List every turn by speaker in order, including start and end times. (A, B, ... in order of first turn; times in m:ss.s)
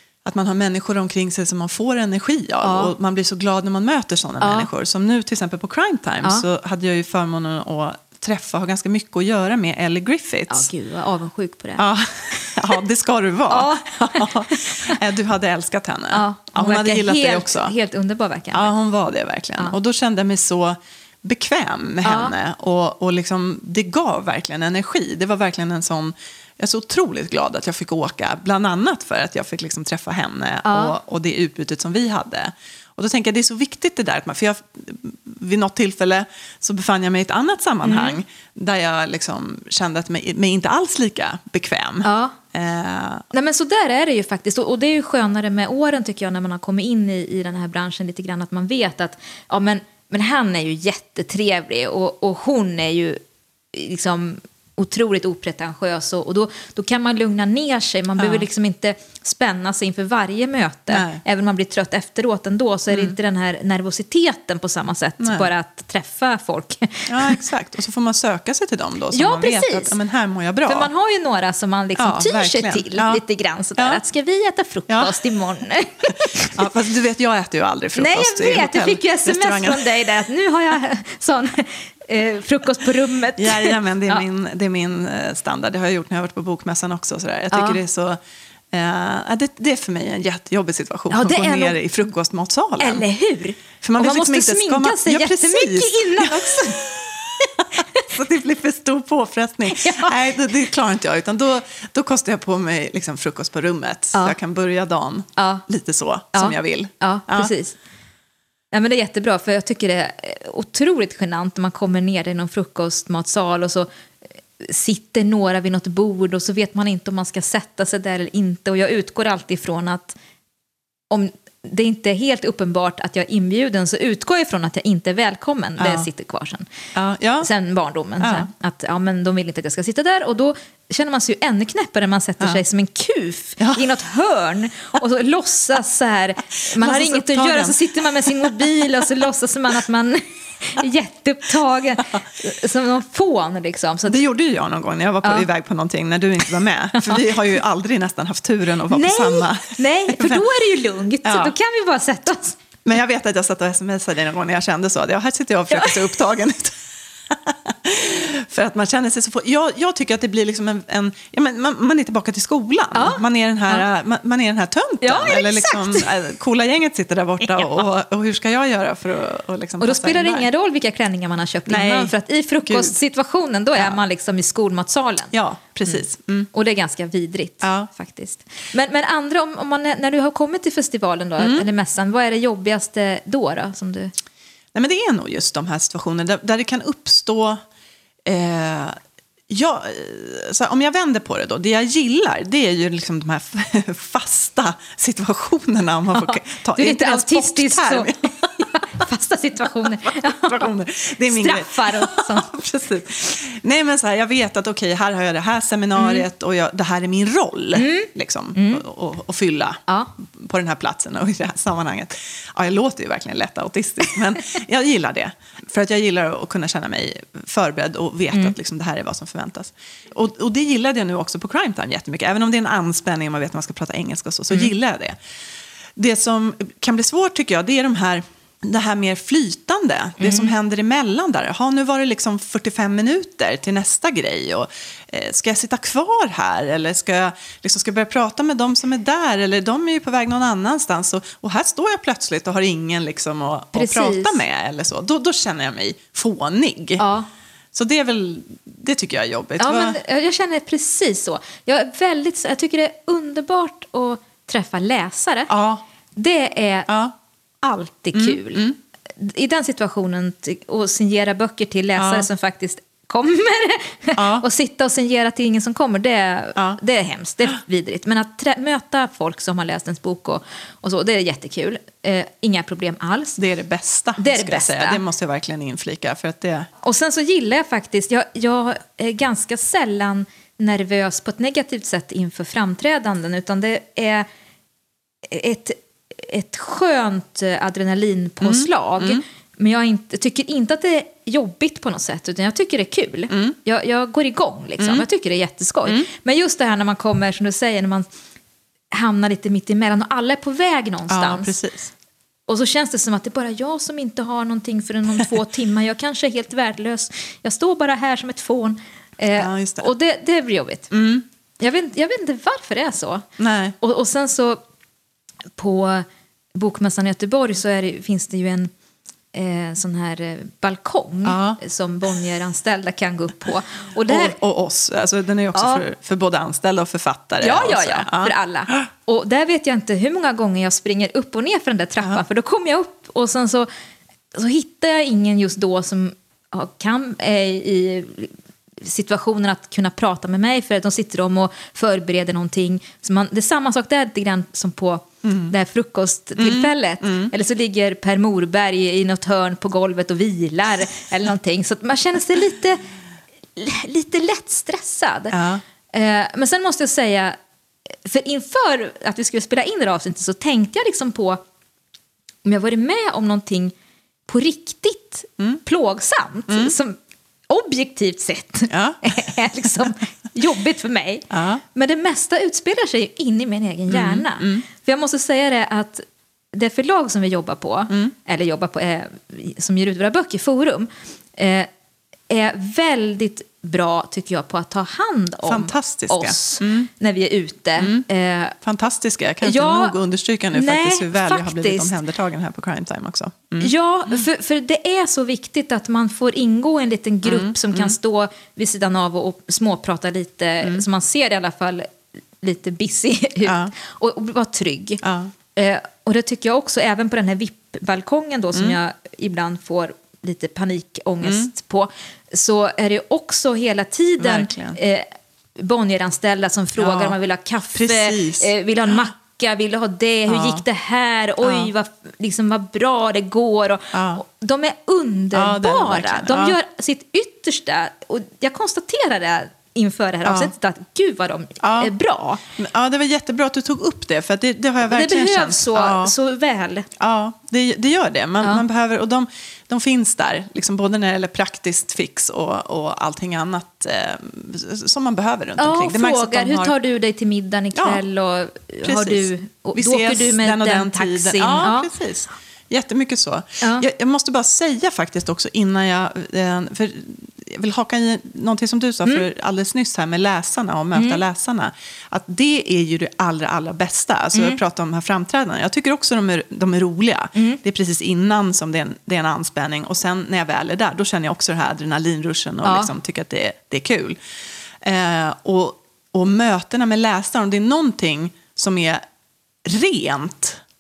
0:00.2-0:10.7 A
0:02.6-0:02.9 B
0:04.4-0:04.7 B
0:10.5-0:12.8 B
0:11.8-0:17.7 A
0:13.5-0:15.0 B
0:16.1-0:18.7 B
0:18.5-0:43.3 A
0:22.0-0:22.3 B
0:30.6-0:31.0 B
0:37.8-0:38.2 B
0:42.0-0:42.4 B
0:43.3-0:53.2 B
0:53.7-1:07.4 B
0:58.2-0:58.5 A
1:00.9-1:01.2 A
1:02.9-1:03.2 A
1:05.2-1:05.5 A
1:07.1-1:10.9 A
1:09.1-1:10.0 B
1:10.6-1:16.6 B
1:12.0-1:13.2 A
1:14.9-1:15.2 A
1:16.1-1:19.9 A
1:18.0-1:24.2 B
1:23.4-1:28.2 A
1:27.5-1:27.8 B
1:28.7-1:33.0 A
1:31.1-1:31.8 B
1:32.8-1:36.9 B
1:33.8-1:47.5 A
1:37.4-1:38.0 B
1:39.7-1:40.2 B
1:45.4-1:45.6 B
1:46.3-1:47.8 B
1:48.7-1:53.9 B
1:54.6-2:00.2 B
2:01.1-2:06.7 B
2:05.8-2:06.1 A
2:07.0-2:07.5 A
2:07.4-2:24.2 B
2:08.2-2:08.5 A
2:13.6-2:13.9 A
2:16.8-2:19.0 A
2:24.1-2:30.5 A
2:28.9-2:32.6 B
2:31.2-2:31.6 A
2:32.8-2:36.8 A
2:35.7-2:36.0 B
2:37.3-2:50.5 A
2:42.9-2:43.8 B
2:45.0-2:46.1 B
2:49.8-2:55.3 B
2:51.7-2:53.0 A
2:53.8-2:54.0 A
2:55.3-2:56.5 A
2:55.8-3:04.1 B
2:57.6-2:57.9 A
3:01.4-3:01.7 A
3:04.7-3:07.6 A
3:08.2-3:09.0 A
3:09.5-3:19.0 A
3:16.1-3:20.7 B
3:19.8-3:45.2 A
3:21.3-3:22.5 B
3:26.0-3:26.2 B
3:27.7-3:28.8 B
3:29.9-3:30.1 B
3:46.0-4:07.0 A
3:50.2-3:50.5 B
4:03.7-4:04.4 B
4:07.0-4:07.3 B
4:07.7-4:10.0 A
4:09.6-4:15.5 B
4:15.5-4:15.8 A
4:16.2-4:16.9 B
4:16.9-4:17.1 A
4:17.6-4:18.7 B
4:18.1-4:18.8 A
4:19.2-4:33.4 B
4:22.0-4:22.3 A
4:24.2-4:24.4 A
4:33.4-4:36.7 A
4:34.2-4:35.0 B
4:36.8-4:44.3 B
4:45.3-4:58.1 B
4:48.4-4:49.2 A
4:53.3-4:53.6 A
4:54.8-4:55.0 A
4:58.9-5:01.6 B
5:01.1-5:01.9 A
5:02.5-5:10.9 B
5:09.4-5:09.9 A
5:10.9-5:11.2 A
5:11.6-5:13.3 B
5:13.4-5:13.8 A
5:13.8-5:14.6 B
5:15.6-5:18.7 B
5:19.3-5:24.4 B
5:21.2-5:21.6 A
5:24.1-5:28.8 A
5:25.6-5:25.8 B
5:27.4-5:33.7 B
5:34.3-5:52.8 B
5:45.2-5:45.5 A
5:46.4-5:47.3 A
5:53.6-5:55.4 B
5:55.3-5:55.6 A
5:55.9-5:57.4 B
5:58.0-6:01.4 B
6:02.4-6:03.7 B
6:04.3-6:07.0 B
6:06.5-6:06.8 A
6:07.5-6:16.0 B
6:08.7-6:09.1 A
6:11.3-6:11.6 A
6:13.9-6:14.6 A
6:16.5-6:21.7 B
6:22.3-6:28.6 B
6:25.5-6:26.9 A
6:27.8-6:28.1 A
6:28.6-6:34.2 A
6:29.4-6:30.0 B
6:30.5-6:32.0 B
6:33.6-6:45.0 B
6:37.2-6:38.0 A
6:43.4-6:43.7 A
6:45.0-6:45.3 A
6:45.6-7:12.4 B
6:51.2-6:51.5 A
6:54.2-6:54.8 A
6:56.8-6:57.2 A
6:57.7-6:58.5 A
7:00.3-7:00.6 A
7:01.4-7:01.7 A
7:03.9-7:04.2 A
7:05.3-7:06.6 A
7:10.2-7:10.5 A
7:11.6-7:11.9 A
7:12.6-7:16.1 A
7:14.9-7:16.9 B
7:17.0-7:26.7 A
7:25.6-7:31.9 B
7:27.8-7:28.0 A
7:28.8-7:54.2 A
7:33.6-7:33.9 B
7:41.0-7:41.2 B
7:47.4-7:47.6 B
7:52.6-7:52.9 B
7:54.8-7:59.0 A
7:59.6-8:00.6 A